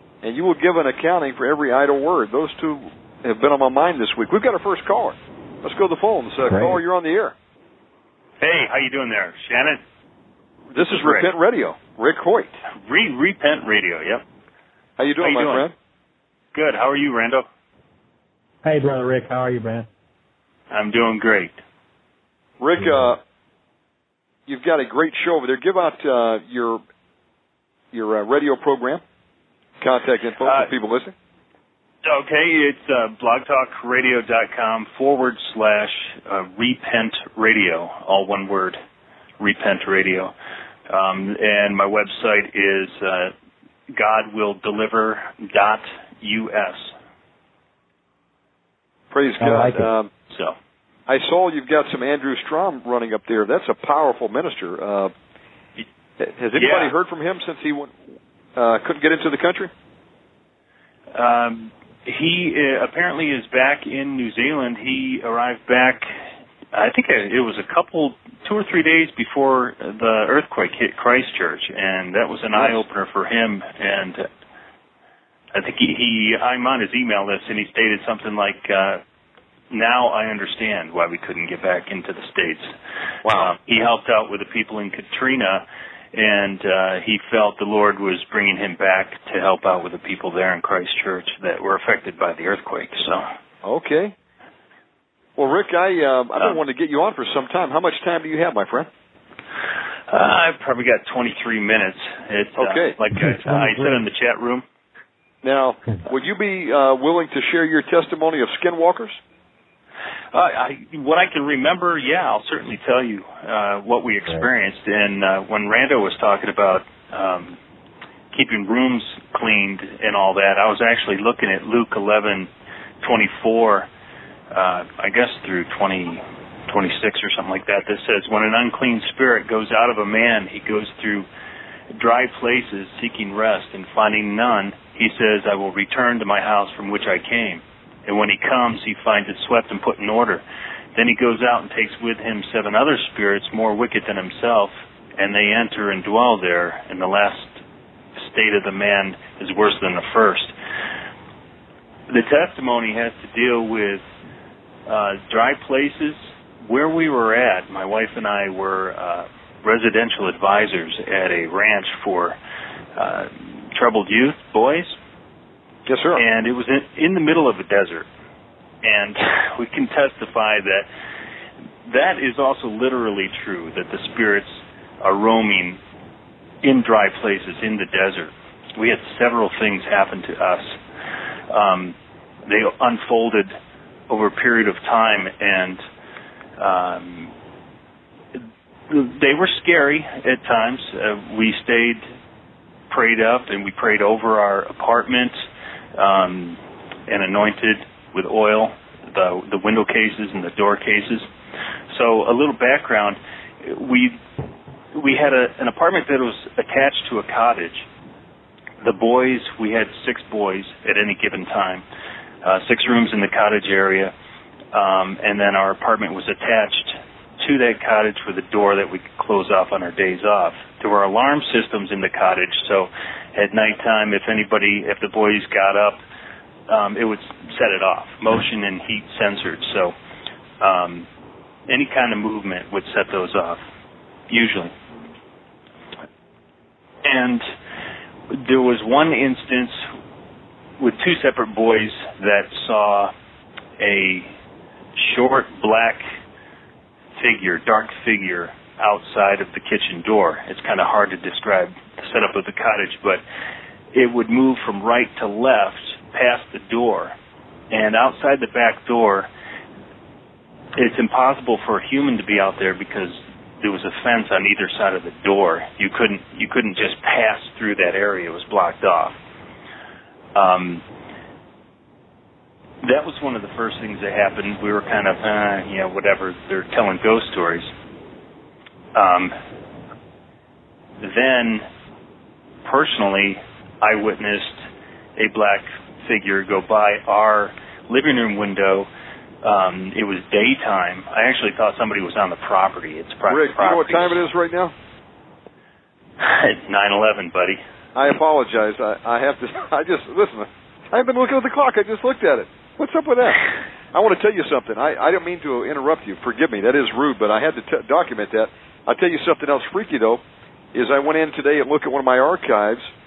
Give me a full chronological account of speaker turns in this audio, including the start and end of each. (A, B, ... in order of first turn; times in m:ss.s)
0:00.2-0:07.3 A
0:06.4-0:06.8 B
0:08.4-0:09.8 C
0:10.7-0:12.5 A
0:10.8-0:11.3 C
0:12.8-0:14.2 C
0:15.0-0:15.7 A
0:15.2-0:15.7 C
0:16.5-0:17.4 C
0:18.6-0:19.9 B
0:20.7-0:21.6 C
0:22.6-0:23.2 A
0:22.8-0:23.1 B
0:24.5-0:26.8 A
0:27.9-0:29.0 A
0:29.8-0:31.1 A
0:30.4-0:30.7 C
0:32.0-0:38.8 C
0:39.4-0:40.3 C
0:40.9-0:43.3 C
0:43.9-0:46.9 C
0:49.1-0:50.1 A
0:49.4-0:49.9 B
0:50.3-0:50.6 C
0:51.1-0:55.1 A
0:56.2-0:57.9 A
0:56.5-0:56.9 C
0:58.6-0:59.7 A
1:01.1-1:06.1 C
1:06.7-1:14.2 C
1:15.5-1:19.0 C
1:19.7-1:22.7 C
1:23.2-1:33.2 C
1:33.6-1:34.1 A
1:35.4-1:38.9 A
1:40.1-1:44.6 C
1:42.6-1:43.0 A
1:43.1-1:44.0 B
1:45.4-1:49.2 A
1:50.3-1:57.6 C
1:58.3-2:02.5 C
2:03.0-2:03.9 C
2:04.5-2:11.2 C
2:11.9-2:20.4 C
2:20.9-2:27.6 C
2:28.2-2:30.5 C
2:32.1-2:34.0 C
2:34.9-2:42.4 C
2:43.0-2:44.9 C
2:45.9-2:46.2 A
2:46.1-2:48.1 C
2:48.8-2:50.9 C
2:51.8-2:55.8 C
2:56.6-3:00.8 C
3:01.5-3:03.6 C
3:04.1-3:05.8 C
3:06.6-3:07.3 C
3:08.4-3:12.0 C
3:12.9-3:15.4 C
3:16.0-3:21.3 C
3:21.9-3:24.2 C
3:24.9-3:27.8 C
3:28.8-3:31.8 C
3:32.4-3:34.1 C
3:34.7-3:46.0 C
3:46.7-3:49.9 C
3:50.6-3:51.1 C
3:51.7-3:53.6 C
3:54.3-3:54.7 C
3:57.0-3:57.5 C
3:58.3-3:59.8 C
4:00.8-4:03.1 C
4:03.8-4:04.3 C
4:05.0-4:06.0 C
4:07.2-4:13.2 C
4:13.9-4:17.1 C
4:17.7-4:19.3 C
4:20.7-4:29.2 C
4:30.3-4:30.8 C
4:32.8-4:37.7 C
4:38.9-4:39.3 C
4:41.0-4:41.6 C
4:42.6-4:44.6 C
4:45.2-4:48.9 C
4:49.4-4:54.2 C
4:53.3-4:54.7 A
4:56.2-4:57.6 C
4:57.9-5:10.2 A
5:10.7-5:12.9 A